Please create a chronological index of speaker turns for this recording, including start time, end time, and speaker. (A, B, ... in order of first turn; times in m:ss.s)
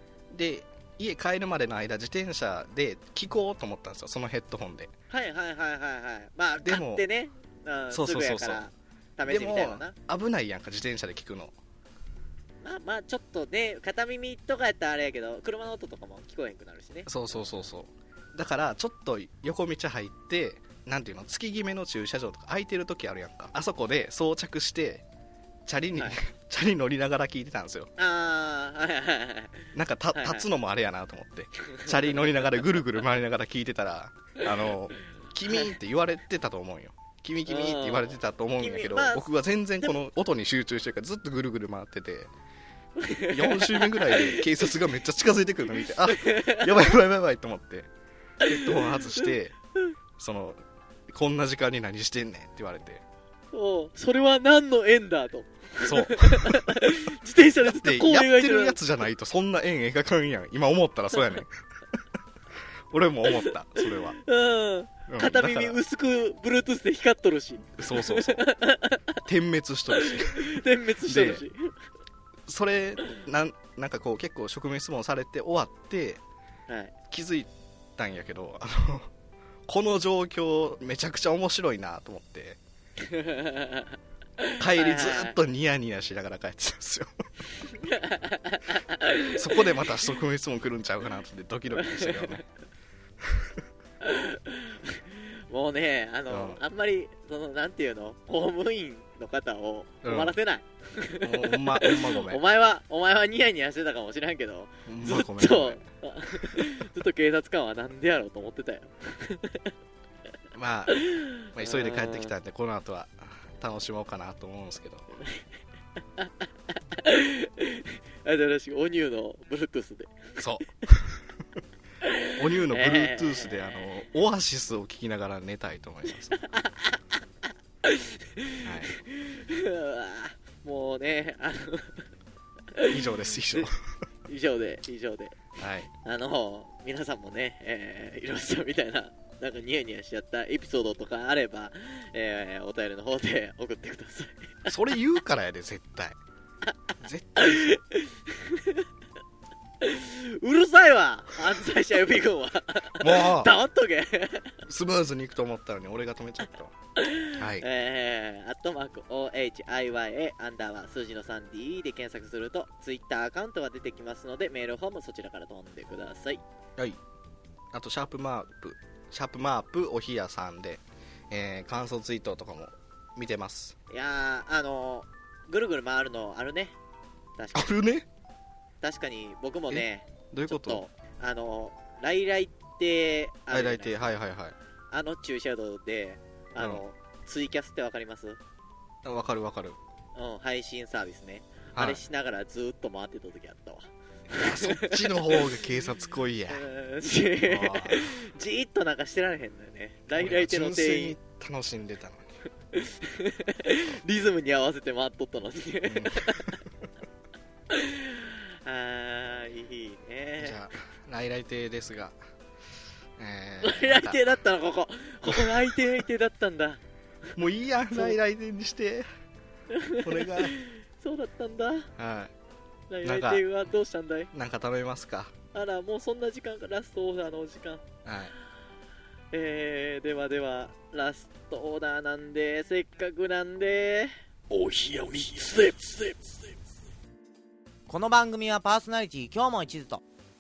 0:00.3-0:04.9 A
0:05.1-0:10.0 B
0:06.6-0:07.1 A
0:07.9-0:08.6 A
0:09.2-0:11.6 A
0:12.6-0:17.6 B
0:17.1-0:25.0 A
0:25.7-0:27.9 A
0:28.0-0:30.5 B
0:29.8-0:42.3 A
0:31.7-0:32.6 B
0:37.5-0:39.3 B
0:43.0-0:44.7 B
0:43.3-0:47.9 A
0:46.0-0:46.9 B
0:48.4-0:49.6 A
0:48.4-0:49.9 B
0:50.2-0:53.0 A
0:53.5-0:58.8 B
0:55.8-0:56.8 A
0:57.6-1:01.5 A
1:02.9-1:04.2 A
1:03.3-1:09.2 B
1:05.1-1:05.8 A
1:07.8-1:08.5 A
1:09.2-1:11.4 A
1:10.0-1:11.7 B
1:12.5-1:16.2 A
1:16.7-1:16.9 B
1:17.1-1:19.1 A
1:19.7-1:22.6 A
1:23.0-1:25.4 B
1:24.6-1:27.1 A
1:27.8-1:29.7 B
1:29.3-1:32.4 A
1:31.8-1:32.4 B
1:33.2-1:33.6 A
1:34.0-1:49.7 B
1:36.3-1:36.6 A
1:40.0-1:40.4 A
1:41.2-1:42.4 A
1:44.9-1:45.9 A
1:50.5-1:55.1 A
1:50.9-1:52.3 B
1:56.9-2:00.2 B
2:00.4-2:01.2 A
2:02.0-2:03.9 B
2:02.4-2:06.4 A
2:06.4-2:07.0 B
2:07.8-2:12.0 B
2:08.6-2:09.0 A
2:12.7-2:13.7 B
2:12.9-2:13.8 A
2:14.3-2:15.4 B
2:15.6-2:15.9 A
2:16.0-2:24.7 B
2:24.7-2:26.2 A
2:27.0-2:27.8 A
2:27.4-2:28.8 B
2:29.8-2:34.6 B
2:33.0-2:33.5 A
2:34.6-2:36.7 A
2:37.0-2:46.4 B
2:37.3-2:37.7 A
2:47.7-2:53.8 A
2:53.9-2:56.8 B
2:57.4-2:57.8 B
2:57.6-2:58.1 A
2:58.8-3:04.1 B
2:59.7-3:00.8 A
3:03.5-3:04.6 A
3:04.9-3:08.4 B
3:06.6-3:06.8 A
3:09.0-3:09.8 A
3:10.2-3:15.5 B
3:11.7-3:12.0 A
3:14.4-3:16.6 A
3:16.5-3:21.2 B
3:17.4-3:18.0 A
3:20.1-3:22.3 A
3:22.7-3:26.6 B
3:25.9-3:26.6 A
3:27.7-3:30.6 B
3:30.4-3:32.2 A
3:33.2-3:34.2 A
3:33.6-3:36.8 B
3:35.3-3:35.7 A
3:37.4-3:39.0 A
3:39.7-3:41.9 B
3:40.0-3:40.6 A
3:42.0-3:42.3 A
3:42.9-3:44.3 B
3:43.0-3:43.5 A
3:44.3-3:45.3 A
3:45.5-3:47.9 B
3:48.0-3:48.3 A
3:49.3-3:56.4 B
3:57.9-4:00.0 C